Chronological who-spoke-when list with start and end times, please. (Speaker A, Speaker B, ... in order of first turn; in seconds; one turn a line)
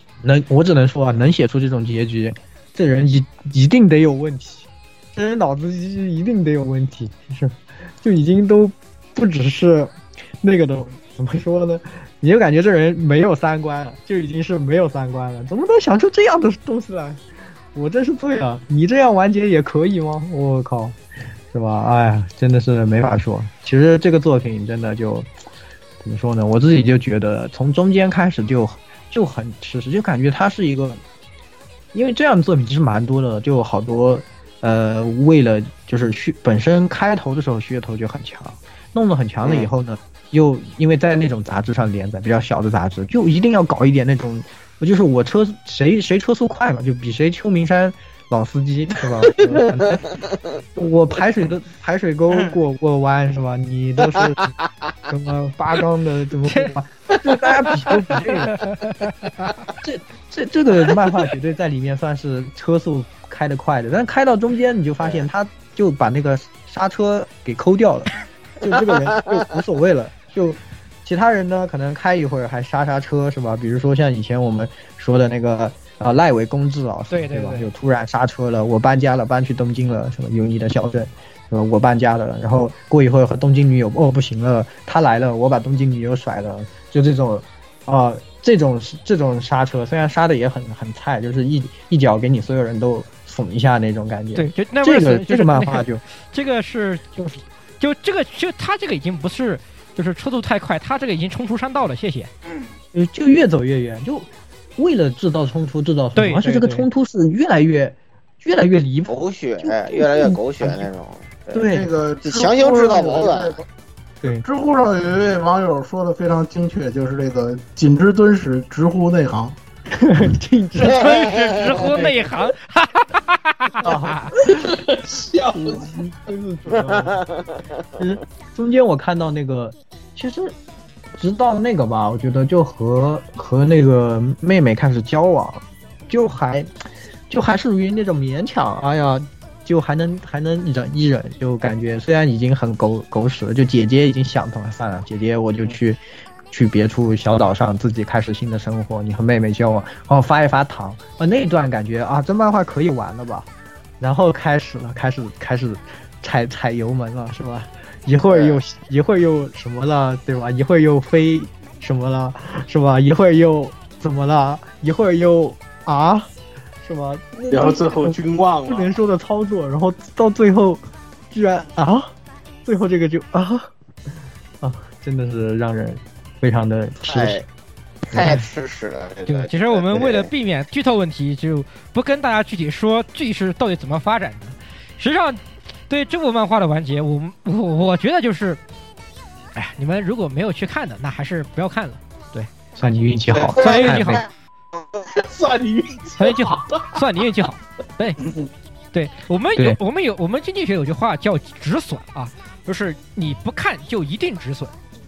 Speaker A: 0.2-17.2
Speaker A: 17.7-21.0
Speaker A: 21.5-25.3
Speaker A: 26.0-31.0
Speaker A: 31.9-50.1
Speaker B: 39.4-39.7
Speaker A: 50.8-54.5
Speaker A: 55.1-58.6
Speaker C: 56.5-56.7
Speaker C: 58.6-59.1
Speaker A: 59.8-96.0
Speaker B: 68.7-69.4
Speaker C: 77.1-77.7
Speaker C: 94.3-97.2
Speaker C: 97.8-102.3
Speaker A: 102.9-110.9
Speaker C: 106.2-106.9
Speaker B: 109.1-111.7
Speaker A: 111.5-111.9
Speaker D: 111.7-113.6
Speaker B: 112.2-113.6
Speaker D: 114.3-119.6
Speaker A: 120.0-122.2
Speaker C: 120.8-124.3
Speaker B: 121.1-121.9
Speaker A: 123.8-124.7
Speaker E: 124.5-126.0
Speaker A: 125.7-127.2
Speaker B: 126.8-127.2
Speaker A: 128.0-130.6
Speaker A: 131.2-136.7
Speaker A: 137.3-153.5
Speaker A: 154.0-166.3
Speaker B: 158.3-158.6
Speaker A: 166.8-172.1
Speaker E: 167.5-169.0
Speaker A: 172.7-173.7
Speaker A: 174.6-177.4
Speaker B: 177.1-177.4
Speaker B: 178.1-180.3
Speaker A: 178.1-178.4
Speaker C: 179.3-188.6
Speaker C: 189.6-192.5
Speaker A: 192.8-194.2
Speaker B: 193.3-194.2
Speaker C: 193.6-194.2
Speaker E: 195.1-196.8
Speaker C: 196.2-198.2
Speaker C: 198.9-204.7